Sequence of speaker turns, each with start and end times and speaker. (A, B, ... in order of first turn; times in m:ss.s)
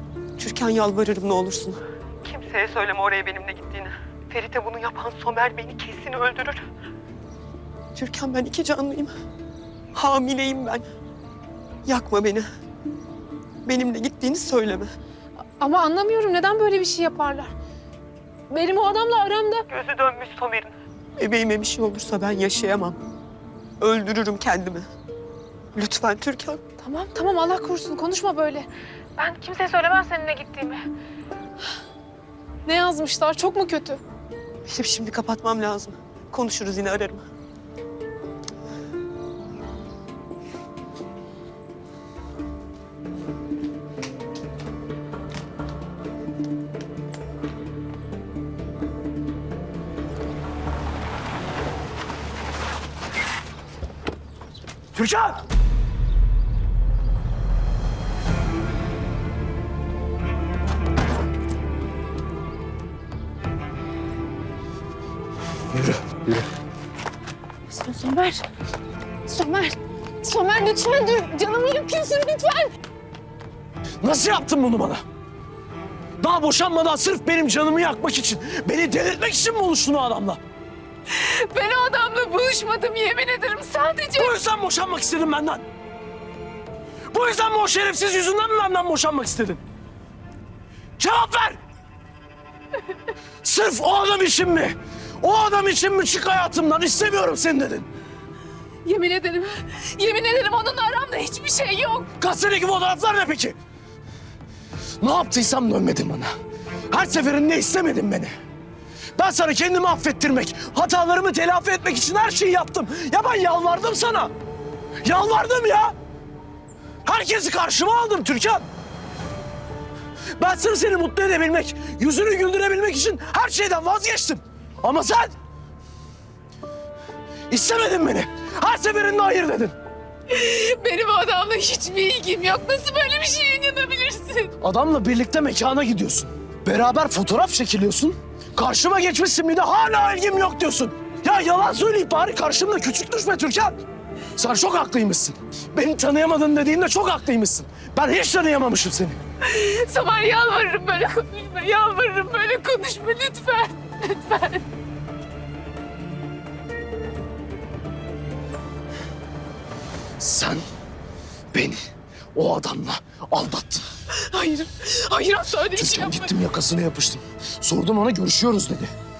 0:00.4-0:06.6 A
0:07.9-0:09.1 A
0:09.9-0:10.8 A
0:11.8-0:12.5 A
0:13.6-0:14.9 A
0:15.6-0:17.5 B
0:18.5-0:19.7 B
0:19.7-0:23.0 A
0:23.8-0:24.8 A
0:25.7-0:26.6 A
0:26.8-0:30.8 B
0:32.6-0:34.0 B
0:34.6-0:37.2 A
0:54.9-0:55.4 C
1:05.7-1:06.4 C
1:07.7-1:08.4 B
1:09.3-1:12.7 B
1:14.0-1:15.0 C
1:16.2-1:20.4 C
1:21.1-1:24.3 B
1:24.2-1:25.6 C
1:27.1-1:29.6 C
1:31.0-1:31.6 C
1:33.4-1:37.9 C
1:38.8-1:42.1 B
1:42.2-1:43.6 C
1:45.0-1:46.3 C
1:46.9-1:48.3 C
1:49.2-1:54.3 C
1:55.0-1:55.9 C
1:57.0-1:58.6 C
2:00.4-2:05.3 C
2:07.5-2:09.8 C
2:10.3-2:14.5 B
2:14.6-2:23.8 C
2:24.4-2:29.2 C
2:29.4-2:34.6 B
2:40.2-2:40.6 C
2:41.5-2:41.8 C
2:42.3-2:43.8 C
2:44.1-2:46.3 B
2:45.7-2:48.9 C